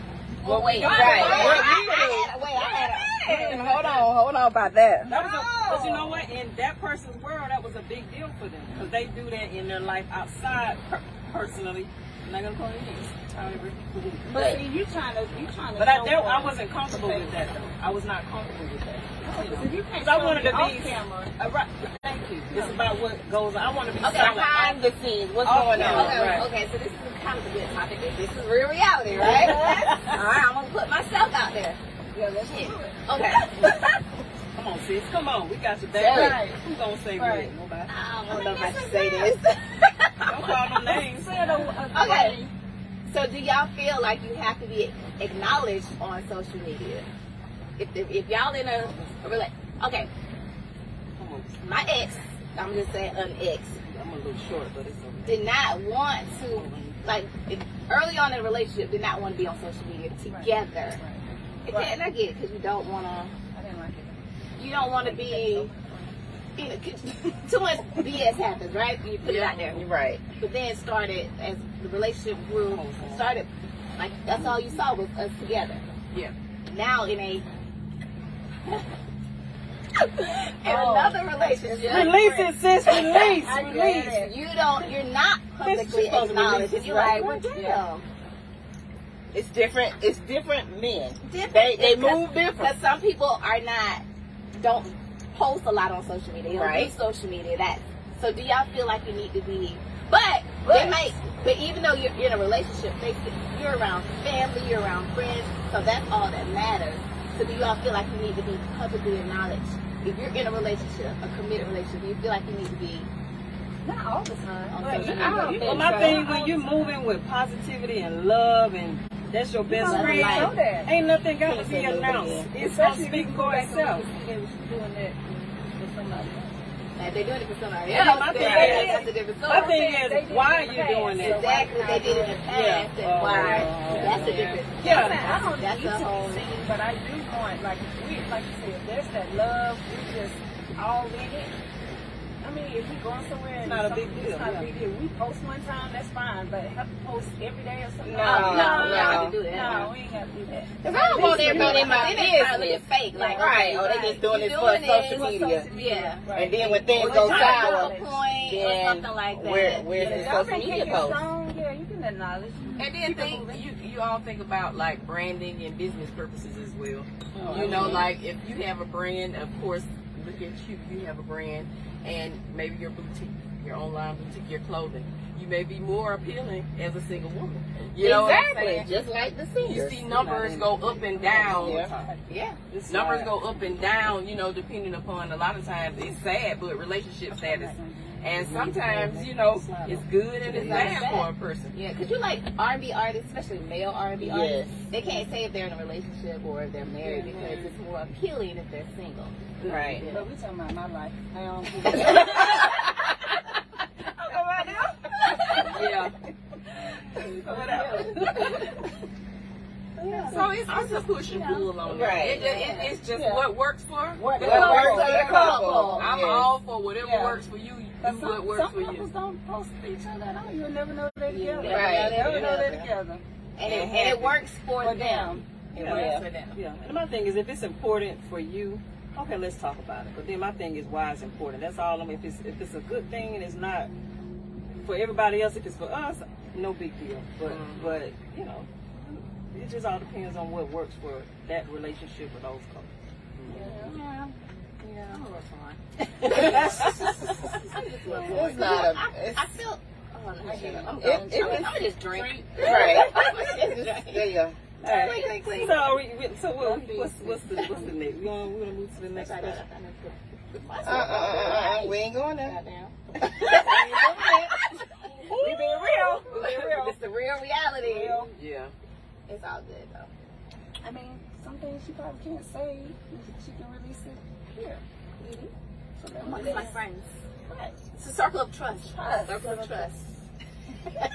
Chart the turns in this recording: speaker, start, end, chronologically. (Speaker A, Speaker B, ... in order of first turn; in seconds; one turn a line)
Speaker A: 0.4-1.8
Speaker B: 0.4-5.1
Speaker C: 0.8-2.0
Speaker D: 0.8-2.3
Speaker E: 0.9-1.6
Speaker C: 3.0-4.1
Speaker E: 5.0-14.3
Speaker C: 5.1-6.2
Speaker C: 14.2-17.5
Speaker D: 14.3-14.6
Speaker E: 15.8-24.8
Speaker C: 19.3-21.3
Speaker C: 22.5-22.8
Speaker B: 24.0-24.8
Speaker D: 24.2-26.3
Speaker E: 25.4-26.5
Speaker B: 25.8-31.8
Speaker C: 29.1-29.9
Speaker E: 29.1-30.2
Speaker C: 32.1-33.1
Speaker B: 32.5-33.8
Speaker C: 33.6-33.9
Speaker E: 34.5-37.9
Speaker D: 36.0-36.4
Speaker C: 36.0-36.6
Speaker C: 37.1-37.5
Speaker B: 37.9-40.7
Speaker E: 40.2-41.6
Speaker C: 41.0-42.5
Speaker B: 41.9-42.4
Speaker B: 43.1-47.0
Speaker B: 47.8-50.1
Speaker E: 51.2-51.9
Speaker B: 51.6-53.8
Speaker E: 53.9-55.4
Speaker B: 55.2-61.0
Speaker E: 56.5-57.0
Speaker C: 60.3-62.0
Speaker B: 61.7-63.3
Speaker C: 63.5-66.2
Speaker B: 64.6-65.7
Speaker B: 66.5-69.8
Speaker A: 69.2-69.7
Speaker D: 69.7-70.2
Speaker B: 70.3-75.8
Speaker E: 72.7-73.3
Speaker B: 76.7-77.5
Speaker B: 80.0-82.2
Speaker C: 80.6-84.3
Speaker E: 81.9-84.2
Speaker B: 82.9-83.3
Speaker B: 84.1-88.0
Speaker E: 85.6-87.5
Speaker C: 87.2-87.8
Speaker D: 89.3-92.7
Speaker B: 91.2-94.0
Speaker B: 94.5-113.1
Speaker D: 96.5-96.9
Speaker C: 100.6-101.0
Speaker C: 113.8-117.0
Speaker B: 114.7-116.2
Speaker D: 115.3-116.1
Speaker E: 115.6-124.0
Speaker C: 119.7-120.9
Speaker B: 119.8-120.5
Speaker D: 121.4-122.5
Speaker C: 122.6-126.6
Speaker B: 127.0-129.8
Speaker E: 127.9-131.6
Speaker C: 128.3-132.4
Speaker B: 131.2-136.4
Speaker E: 132.5-135.3
Speaker A: 133.8-134.5
Speaker C: 133.9-141.5
Speaker C: 142.4-152.5
Speaker E: 143.6-144.8
Speaker D: 148.0-149.4
Speaker B: 148.2-149.9
Speaker D: 150.8-155.7
Speaker B: 151.0-160.4
Speaker C: 153.1-153.6
Speaker C: 155.0-158.2
Speaker D: 156.3-161.2
Speaker E: 157.0-157.6
Speaker C: 159.9-163.7
Speaker A: 162.8-178.9
Speaker C: 167.4-168.1
Speaker B: 167.4-168.0
Speaker D: 167.5-168.0
Speaker D: 178.0-180.1
Speaker A: 179.6-181.9
Speaker E: 180.1-183.4
Speaker D: 181.5-181.9
Speaker C: 181.9-182.2
Speaker B: 182.3-182.6
Speaker A: 182.9-191.7
Speaker C: 187.3-188.3
Speaker E: 188.3-191.0
Speaker B: 190.5-200.3
Speaker D: 194.2-194.8
Speaker E: 197.1-197.6
Speaker D: 199.6-200.0
Speaker A: 199.7-200.0
Speaker C: 200.0-203.0
Speaker B: 201.9-202.8
Speaker C: 204.1-206.0
Speaker B: 205.3-205.7
Speaker A: 205.7-206.1
Speaker C: 207.1-208.8
Speaker B: 207.2-208.8
Speaker E: 210.0-210.4
Speaker C: 210.1-210.7
Speaker A: 210.2-215.2
Speaker B: 210.7-213.0
Speaker D: 211.8-212.4
Speaker C: 212.6-213.5
Speaker C: 214.1-216.0
Speaker D: 214.4-216.5
Speaker B: 214.4-216.1
Speaker A: 215.9-219.1
Speaker C: 217.0-217.4
Speaker C: 218.0-223.2
Speaker B: 221.3-222.9
Speaker D: 221.6-222.3
Speaker B: 223.6-226.6
Speaker A: 223.6-224.4
Speaker C: 224.8-225.4
Speaker E: 225.7-233.9
Speaker D: 225.8-226.3
Speaker E: 234.8-242.9
Speaker A: 237.4-238.0
Speaker A: 243.4-243.7
Speaker C: 243.5-243.9
Speaker B: 243.5-254.3
Speaker E: 246.0-247.6
Speaker C: 246.3-248.9
Speaker D: 248.3-249.4
Speaker C: 250.4-253.4
Speaker D: 251.0-251.7
Speaker D: 252.6-254.6
Speaker E: 254.8-259.6
Speaker B: 254.8-256.0
Speaker C: 256.6-257.6
Speaker B: 259.1-268.3
Speaker D: 260.8-262.6
Speaker C: 263.5-264.6
Speaker E: 265.2-265.8
Speaker C: 265.3-266.9
Speaker C: 267.8-268.3
Speaker A: 268.3-268.7
Speaker B: 269.3-270.1
Speaker C: 270.8-276.8
Speaker B: 276.2-277.1
Speaker C: 277.5-277.8
Speaker B: 277.9-280.1
Speaker C: 278.9-279.9